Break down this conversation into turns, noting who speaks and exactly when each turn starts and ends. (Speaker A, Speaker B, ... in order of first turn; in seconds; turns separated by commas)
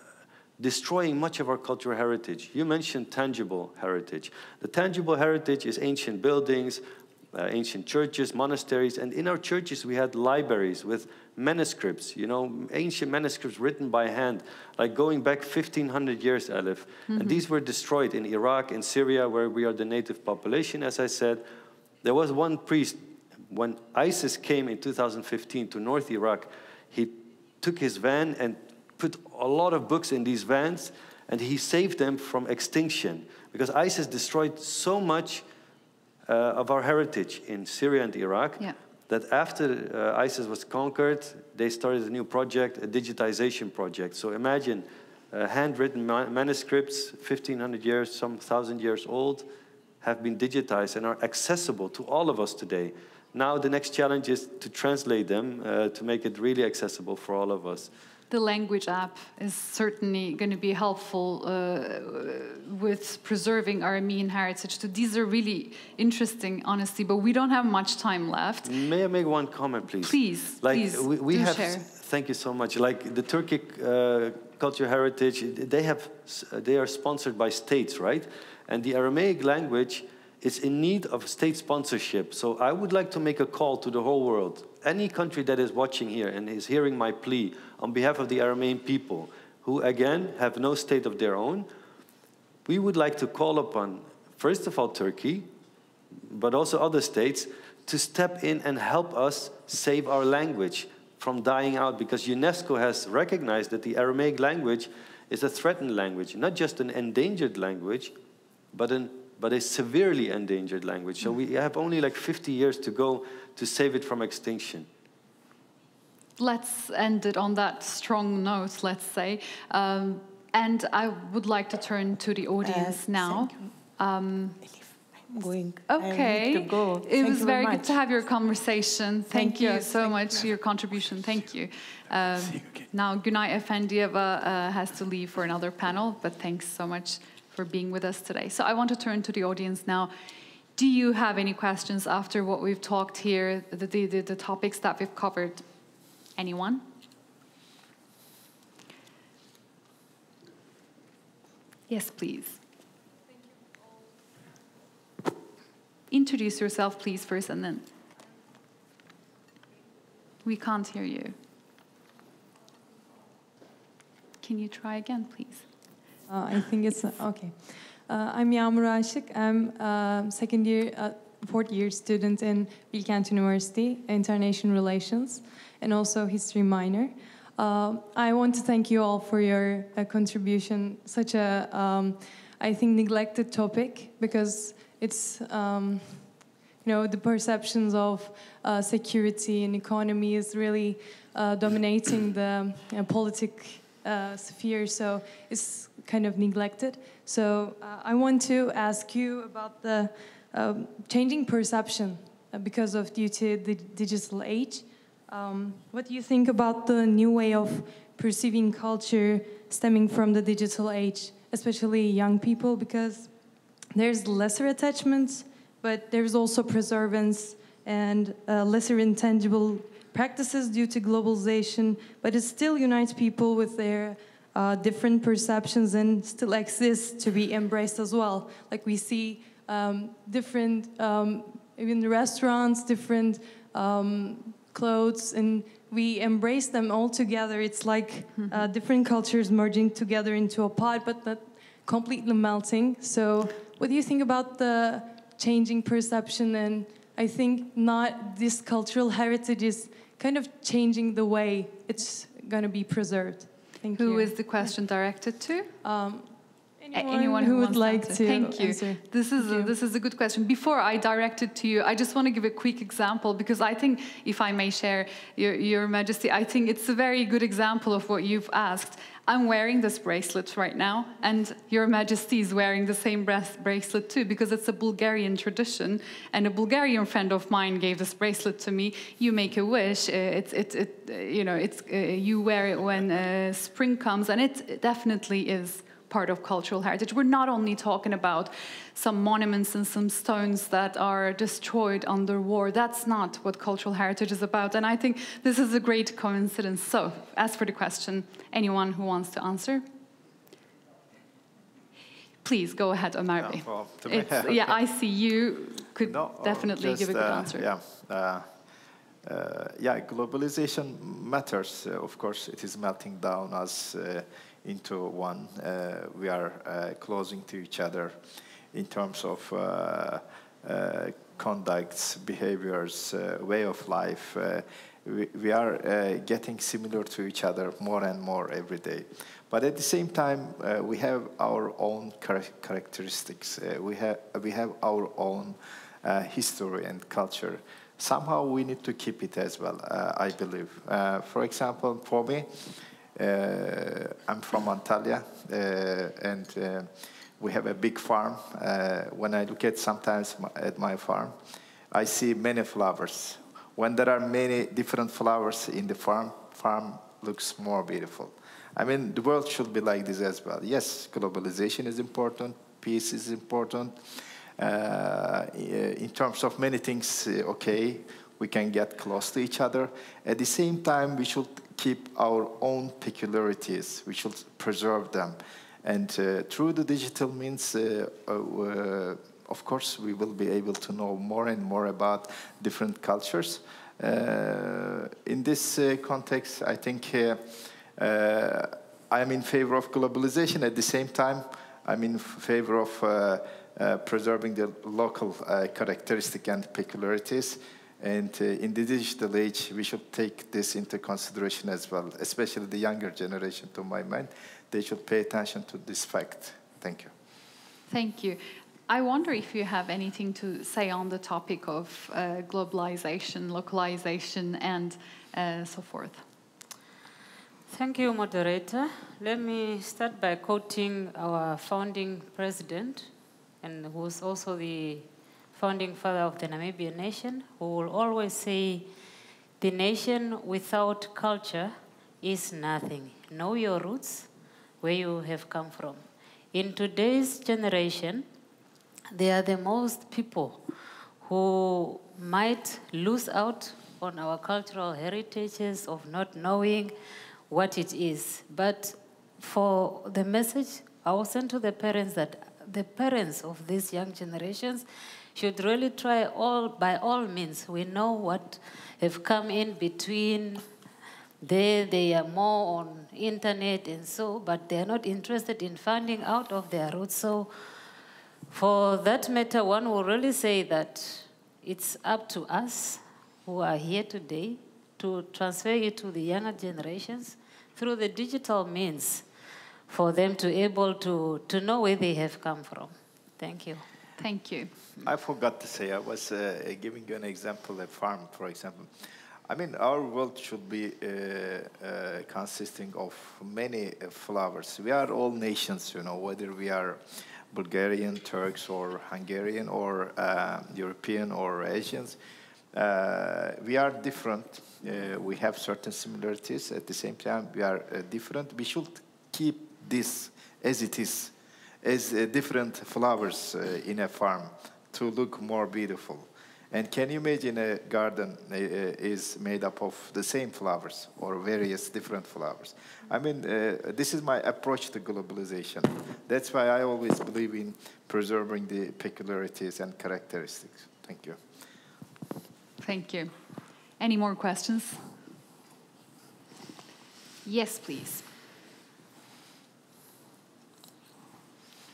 Speaker A: 0.6-6.8, Speaker A: 7.3-21.4, Speaker B: 17.1-17.4, Speaker A: 22.0-35.5, Speaker A: 36.2-49.5, Speaker A: 50.0-57.9, Speaker B: 58.3-68.7, Speaker A: 68.6-91.7, Speaker B: 70.0-71.9, Speaker A: 92.7-95.5, Speaker A: 96.3-108.1, Speaker A: 108.7-114.9, Speaker B: 116.4-124.6, Speaker C: 122.6-123.7, Speaker C: 124.6-128.0, Speaker B: 125.9-140.1, Speaker C: 129.3-130.6, Speaker B: 140.8-145.6, Speaker B: 146.3-146.8, Speaker B: 151.9-152.6, Speaker B: 156.1-157.9, Speaker B: 160.4-161.3, Speaker B: 164.4-165.7, Speaker D: 166.3-213.4, Speaker D: 213.9-254.8, Speaker B: 238.3-238.7, Speaker B: 253.9-255.7, Speaker D: 255.8-259.7, Speaker B: 256.9-299.8, Speaker B: 302.4-307.7, Speaker E: 303.4-304.8, Speaker E: 306.1-308.5, Speaker E: 309.2-318.2, Speaker E: 318.7-351.3, Speaker E: 351.9-364.0, Speaker E: 364.6-407.1, Speaker B: 407.9-416.2, Speaker F: 417.7-423.1, Speaker F: 423.6-428.9, Speaker F: 429.6-434.3, Speaker F: 434.8-436.0, Speaker F: 436.5-438.2, Speaker F: 439.1-440.6, Speaker F: 441.2-446.9, Speaker F: 447.5-460.6, Speaker F: 461.4-467.5, Speaker F: 468.5-479.2, Speaker F: 479.9-483.8, Speaker B: 484.2-484.7, Speaker E: 485.0-488.9, Speaker E: 489.5-497.0, Speaker E: 497.5-502.2, Speaker E: 502.7-531.4, Speaker B: 532.8-533.3, Speaker B: 534.0-535.0, Speaker B: 537.4-538.3